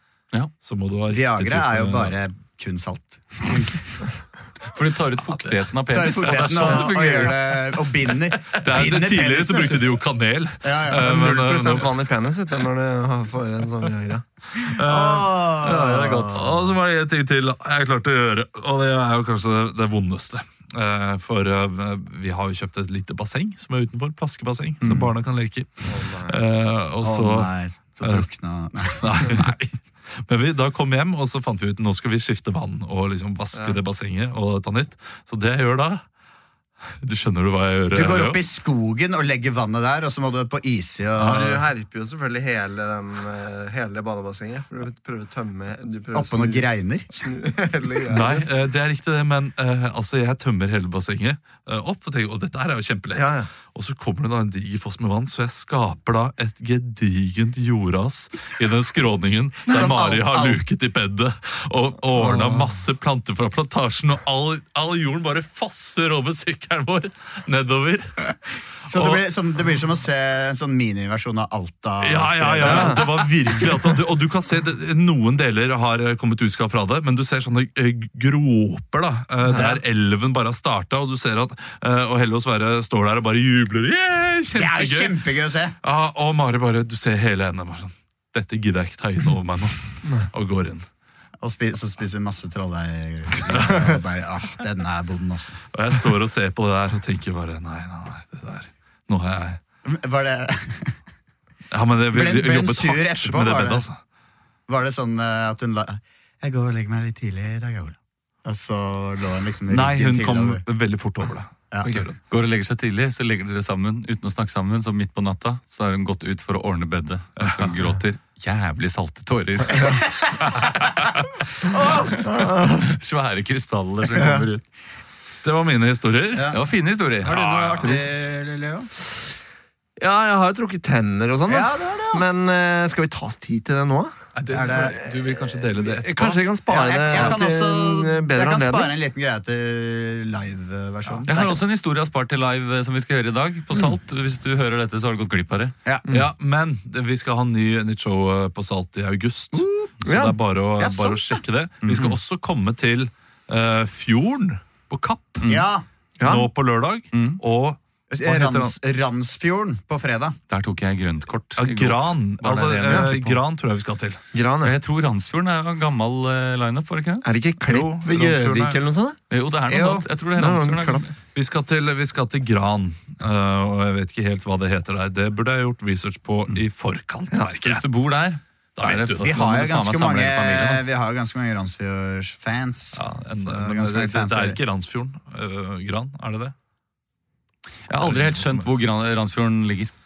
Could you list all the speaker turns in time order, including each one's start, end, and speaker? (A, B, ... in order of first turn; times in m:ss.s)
0:00.6-0:02.2 A
0:01.1-0:03.9 B
0:04.7-0:07.7 C
0:05.9-0:09.8 B
0:08.5-0:11.9 A
0:10.6-0:11.1 B
0:10.9-0:14.2 D
0:14.6-0:27.5 A
0:14.8-0:16.6 B
0:15.6-0:16.4 C
0:25.8-0:26.4 D
0:27.0-0:29.5 B
0:28.0-0:28.3 A
0:29.0-0:36.0 A
0:33.5-0:33.8 D
0:37.0-0:38.4 A
0:37.9-0:41.6 B
0:41.2-0:48.5 D
0:41.2-0:41.5 A
0:46.1-0:47.2 B
0:48.1-1:08.3 A
0:53.1-0:53.5 D
0:59.7-1:00.6 B
1:02.2-1:02.7 D
1:08.9-1:13.6 B
1:08.9-1:09.2 A
1:12.0-1:25.2 A
1:12.6-1:13.0 D
1:24.6-1:25.8 B
1:25.8-1:30.9 A
1:31.4-1:35.6 B
1:33.5-1:33.8 A
1:35.7-1:39.6 A
1:39.9-1:41.0 B
1:41.7-1:44.0 A
1:42.1-1:43.8 B
1:44.7-1:50.6 B
1:49.7-1:52.2 A
1:52.3-2:04.6 C
1:57.4-1:57.8 A
2:01.7-2:02.0 B
2:02.1-2:02.9 D
2:04.1-2:04.5 D
2:05.4-2:06.6 A
2:06.3-2:06.6 B
2:06.5-2:07.4 C
2:07.2-2:08.9 B
2:07.2-2:08.1 A
2:10.0-2:14.1 D
2:11.5-2:12.2 B
2:14.4-2:16.5 A
2:14.5-2:15.0 B
2:15.8-2:19.0 D
2:16.7-2:21.6 B
2:21.3-2:25.8 C
2:26.0-2:26.3 D
2:26.1-2:35.5 A
2:29.5-2:29.9 B
2:30.0-2:30.4 D
2:30.8-2:31.4 B
2:31.8-2:32.1 C
2:35.4-2:35.7 C
2:35.5-2:35.8 B
2:36.2-2:36.5 D
2:36.2-2:38.8 A
2:37.1-2:37.4 C
2:38.1-2:40.4 B
2:40.5-2:43.4 C
2:41.6-2:44.2 A
2:44.3-2:44.7 D
2:44.6-2:47.2 C
2:47.2-2:49.2 D
2:47.6-2:48.8 A
2:49.3-2:51.2 C
2:49.7-2:50.1 B
2:50.4-2:51.1 D
2:51.3-2:57.8 A
2:57.6-3:00.9 C
2:58.8-2:59.4 A
2:59.2-3:04.6 B
3:02.9-3:06.6 A
3:07.9-3:09.9 C
3:08.0-3:08.8 A